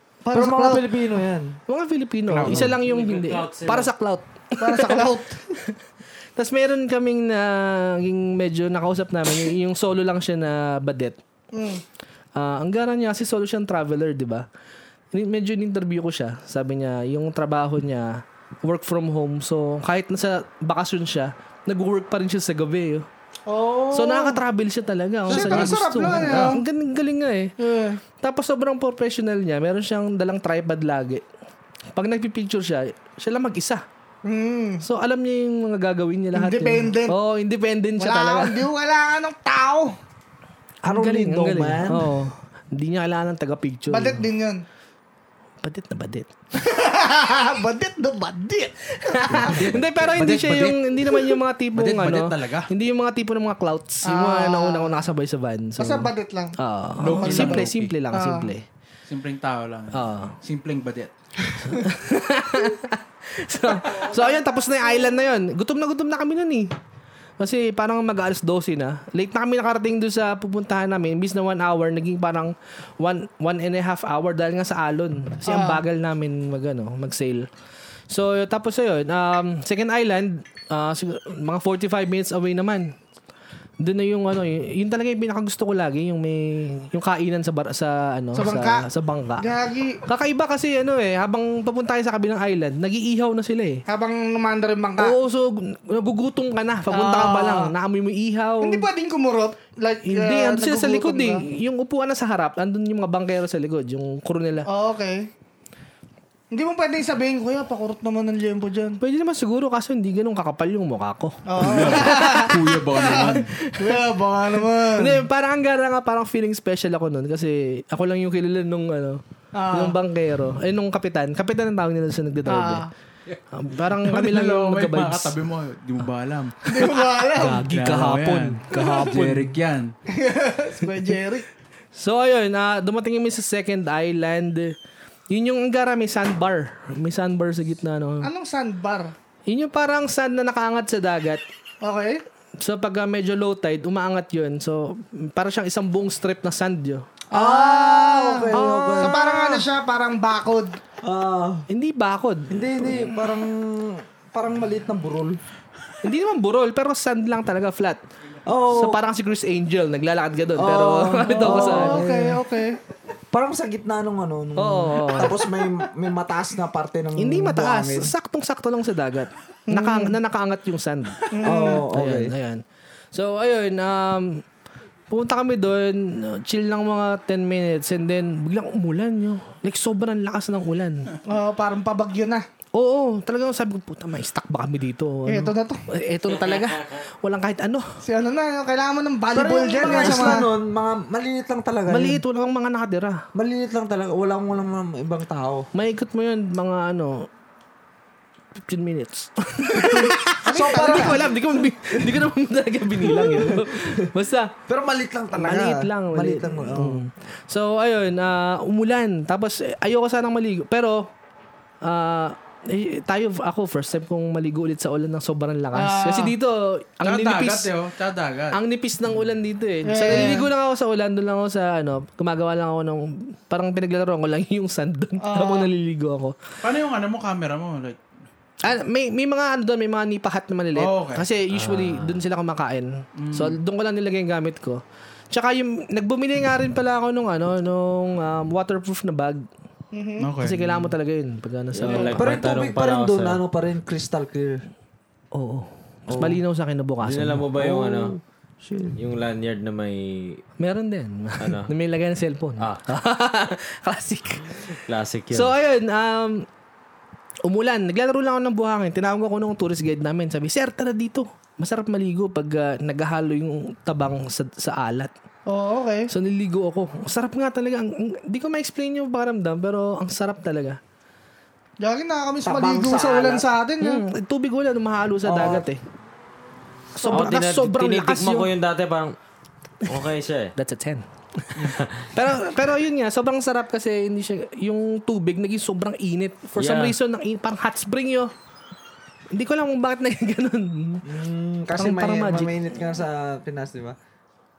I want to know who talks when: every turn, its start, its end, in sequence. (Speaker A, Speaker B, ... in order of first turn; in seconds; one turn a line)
Speaker A: 0.2-0.8
Speaker B: 0.3-1.6
Speaker C: 1.7-5.1
Speaker D: 2.3-2.8
Speaker E: 2.5-3.9
Speaker A: 4.6-5.4
Speaker C: 6.3-11.2
Speaker A: 11.5-11.8
Speaker C: 12.3-14.4
Speaker C: 15.1-23.1
Speaker A: 23.5-24.4
Speaker C: 23.9-27.5
Speaker D: 25.3-26.6
Speaker A: 25.3-26.6
Speaker A: 27.6-28.0
Speaker C: 28.2-31.2
Speaker C: 31.9-33.8
Speaker A: 34.2-34.8
Speaker C: 34.8-38.6
Speaker A: 36.3-37.1
Speaker A: 38.0-40.0
Speaker C: 40.8-44.2
Speaker B: 40.8-42.1
Speaker A: 43.9-44.6
Speaker C: 45.6-46.3
Speaker A: 46.5-49.7
Speaker C: 49.1-58.6
Speaker D: 49.4-52.7
Speaker A: 54.0-55.0
Speaker A: 55.8-56.5
Speaker D: 57.0-57.9
Speaker A: 57.1-58.5
Speaker D: 59.1-61.1
Speaker C: 59.9-60.4
Speaker C: 61.6-66.7
Speaker A: 63.7-65.2
Speaker C: 67.4-77.5
Speaker A: 75.5-75.8
Speaker C: 78.1-82.9
Speaker C: 83.8-89.5
Speaker A: 88.3-88.9
Speaker A: 89.4-90.0
Speaker C: 90.1-93.8
Speaker A: 93.9-95.1
Speaker C: 95.0-98.9
Speaker A: 96.9-97.7
Speaker A: 98.6-101.4
Speaker C: 100.0-104.7
Speaker A: 104.7-105.3
Speaker A: 106.5-109.0
Speaker C: 109.0-114.0
Speaker A: 111.5-115.2
Speaker D: 111.6-113.5
Speaker C: 114.8-122.8
Speaker A: 119.5-120.0
Speaker A: 122.5-122.9
Speaker D: 123.3-126.7
Speaker C: 123.5-125.3
Speaker A: 126.7-127.6
Speaker C: 126.8-129.5
Speaker D: 127.6-129.9
Speaker A: 128.8-129.1
Speaker A: 130.1-131.4
Speaker C: 131.9-134.7
Speaker C: 135.3-138.3
Speaker A: 138.2-139.1
Speaker C: 139.5-141.4
Speaker A: 141.8-142.2
Speaker C: 142.6-147.0
Speaker B: 147.3-149.6
Speaker A: 147.3-150.8
Speaker C: 148.5-149.6
Speaker B: 151.0-151.7
Speaker C: 151.7-153.2
Speaker B: 152.5-155.4
Speaker C: 156.0-158.0
Speaker B: 158.4-159.0
Speaker C: 158.7-162.0
Speaker B: 160.5-162.4
Speaker A: 161.3-162.8
Speaker B: 163.3-168.1
Speaker C: 164.6-165.4
Speaker C: 167.2-172.6
Speaker A: 169.7-170.1
Speaker A: 171.3-171.8
Speaker B: 171.4-172.3
Speaker C: 173.1-174.4
Speaker C: 175.1-181.1
Speaker A: 181.3-182.4
Speaker C: 182.7-187.9
Speaker A: 185.3-185.8
Speaker E: 186.3-187.0
Speaker A: 188.0-190.4
Speaker B: 189.3-192.2
Speaker C: 189.8-190.4
Speaker C: 191.9-193.2
Speaker B: 193.3-195.7
Speaker C: 195.7-197.3
Speaker C: 198.6-204.5
Speaker A: 199.8-201.2
Speaker B: 200.4-201.2
Speaker B: 201.9-202.2
Speaker B: 203.0-204.1
Speaker B: 204.7-207.0
Speaker C: 205.3-211.1
Speaker C: 211.8-217.7
Speaker A: 215.7-216.3
Speaker D: 217.0-218.6
Speaker C: 218.5-226.3
Speaker A: 219.8-220.5
Speaker A: 225.2-225.7
Speaker D: 226.6-228.0
Speaker C: 228.6-239.4
Speaker D: 230.7-231.2
Speaker E: 231.5-232.2
Speaker D: 233.2-233.6
Speaker A: 239.9-240.3
Speaker D: 240.2-240.9
Speaker C: 240.4-242.3
Speaker E: 241.7-243.4
Speaker B: 242.2-244.6
Speaker C: 245.3-247.4
Speaker B: 246.1-246.4
Speaker E: 247.0-248.1
Speaker B: 247.5-249.0
Speaker E: 248.9-250.4
Speaker C: 250.6-254.7
Speaker E: 251.4-251.7
Speaker E: 254.8-255.5
Speaker C: 255.3-256.4
Speaker C: 257.4-265.1
Speaker A: 265.5-266.1
Speaker C: 266.1-270.8
Speaker A: 271.8-274.0
Speaker B: 272.4-273.5
Speaker C: 273.8-275.8
Speaker B: 275.2-275.7
Speaker C: 276.9-278.5
Speaker E: 277.1-279.1
Speaker E: 279.9-280.5
Speaker C: 280.6-288.3
Speaker E: 281.6-282.1
Speaker E: 286.6-286.9
Speaker C: 289.3-291.0
Speaker B: 291.0-294.0
Speaker C: 291.8-292.5